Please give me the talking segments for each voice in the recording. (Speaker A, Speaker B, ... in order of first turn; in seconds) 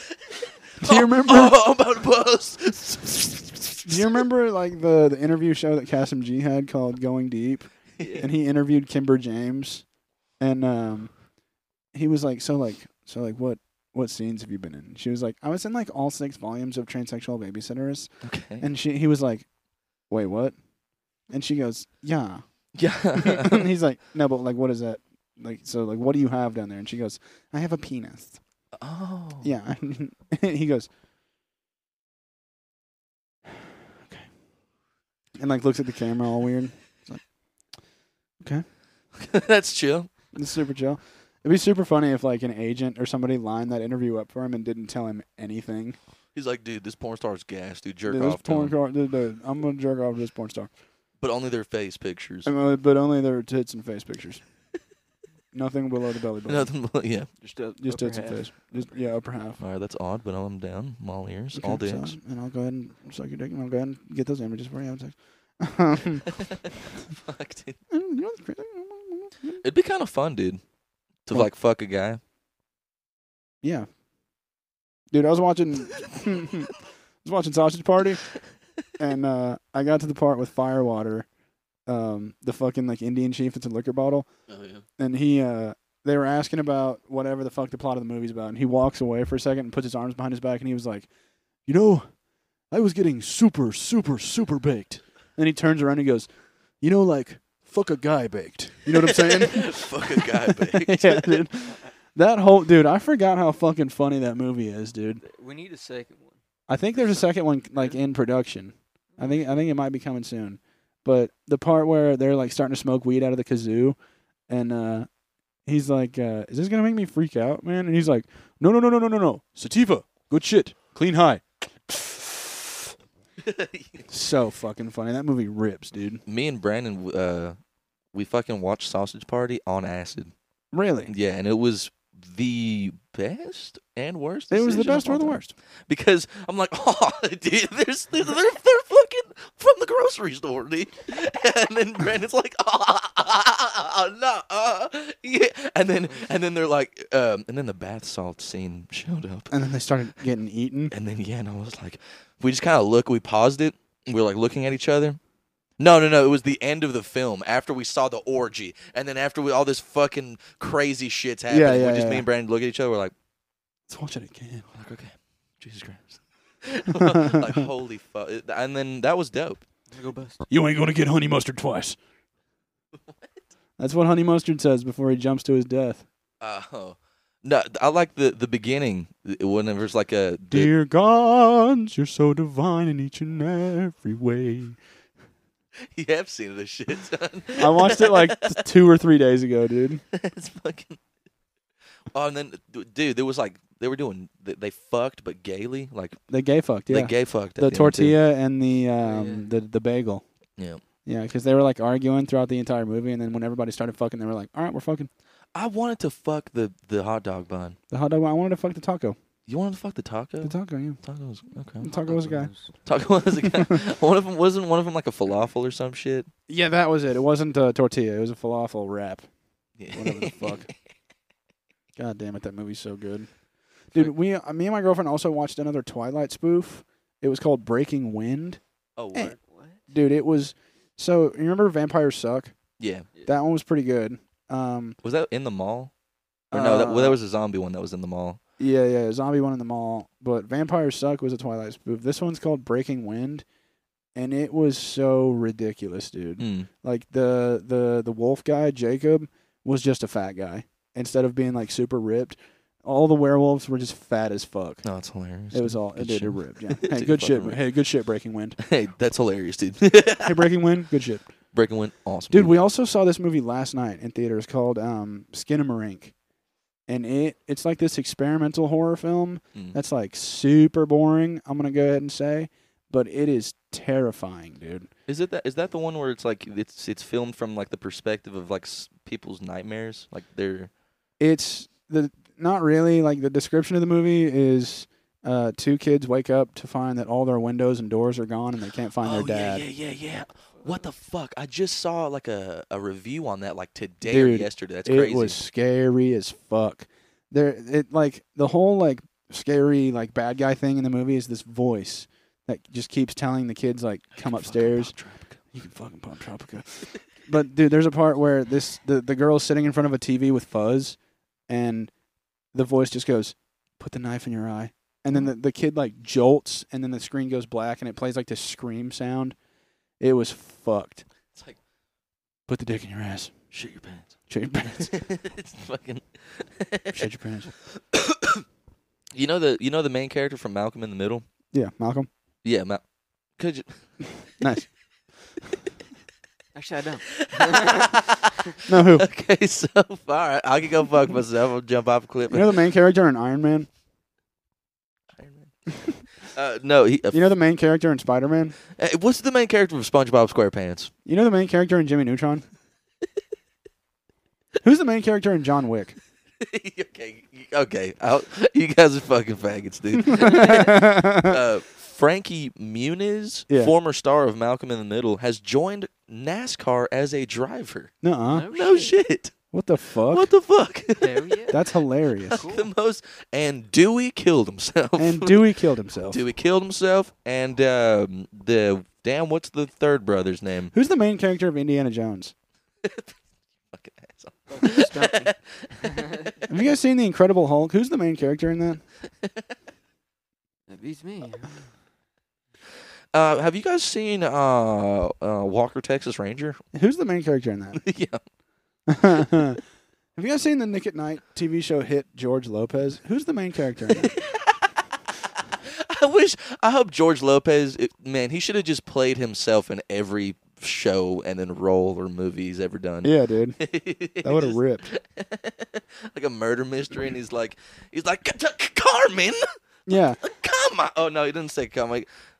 Speaker A: 0.8-4.2, 8.0-8.2, 18.2-18.7, 22.8-23.7, 28.7-29.5, 39.1-40.1, 46.3-48.8, 51.2-52.5, 56.5-57.3, 59.6-62.2, 66.4-67.8, 69.6-70.6, 71.2-72.2, 84.5-84.8, 99.0-101.5, 123.4-124.0, 126.3-127.6, 128.1-130.3, 131.1-149.5, 150.9-155.2, 155.8-163.1, 164.7-169.6, 176.4-180.7, 185.9-188.4, 190.1-191.0, 192.1-196.2, 196.9-198.2, 205.6-207.8, 209.5-211.9, 212.8-216.3, 219.8-220.7, 229.0-229.4, 232.8-233.1, 235.0-235.9, 236.5-238.4, 246.4-246.7, 254.8-257.6, 258.6-260.5, 261.5-262.6, 275.1-280.7, 289.0-295.4, 304.1-305.4, 323.5-324.1, 324.8-327.0, 327.8-328.4, 329.1-331.2, 332.4-332.8, 333.4-333.8, 337.2-342.5, 345.1-345.7, 346.2-347.2, 348.7-350.9, 356.4-367.9, 368.5-369.4, 370.1-371.4, 372.3-375.5, 376.1-380.7, 382.8-383.2, 383.7-386.3, 393.1-396.6, 397.8-398.2, 404.0-404.8, 405.6-419.4, 420.2-422.1
Speaker B: 0.8-1.6, 3.9-11.3, 11.9-19.5, 20.1-20.6, 21.3-28.4, 29.4-30.9, 34.1-34.3, 35.4-37.2, 38.4-38.7, 40.3-46.0, 48.1-50.7, 52.5-54.4, 55.5-56.7, 57.8-59.6, 61.6-66.3, 67.9-69.6, 73.6-73.9, 75.1-78.3, 79.0-81.3, 81.9-84.3, 85.0-91.1, 91.6-92.2, 92.7-96.3, 96.8-105.2, 106.7-114.0, 114.5-115.1, 115.7-122.5, 124.1-126.2, 130.7-131.1, 134.5-135.5, 149.5-150.9, 161.5-162.2, 163.9-164.7, 167.0-167.6, 170.5-172.0, 173.8-176.1, 180.5-184.8, 187.6-190.0, 196.3-200.2, 201.1-205.1, 207.9-209.2, 210.4-211.0, 211.8-212.5, 216.5-219.3, 219.9-220.7, 222.0-223.3, 223.9-228.6, 229.9-232.5, 233.2-235.0, 236.5-237.2, 238.6-243.4, 244.2-254.8, 255.5-258.6, 260.2-261.3, 262.3-266.1, 266.9-274.9, 281.2-289.6, 294.1-304.9, 305.5-311.9, 312.5-319.4, 320.0-321.1, 322.5-323.4, 324.3-324.9, 326.9-327.5, 331.5-332.1, 334.4-334.7, 338.7-339.1, 342.3-343.7, 347.1-348.6, 351.1-352.4, 354.6-356.0, 360.2-361.3, 368.0-368.5, 369.5-370.3, 371.5-372.4, 375.0-376.2, 380.7-382.3, 386.5-388.8, 396.7-397.8, 398.9-399.6, 400.2-404.1, 413.0-413.6, 414.2-414.9, 419.9-420.2
Speaker C: 57.4-58.5, 105.2-106.4, 109.2-109.5, 169.9-170.4, 199.0-199.5, 211.8-212.8, 229.4-229.8, 290.6-290.9, 336.5-338.0, 368.3-369.0, 371.0-371.6, 372.3-372.7, 384.5-386.3, 390.7-391.7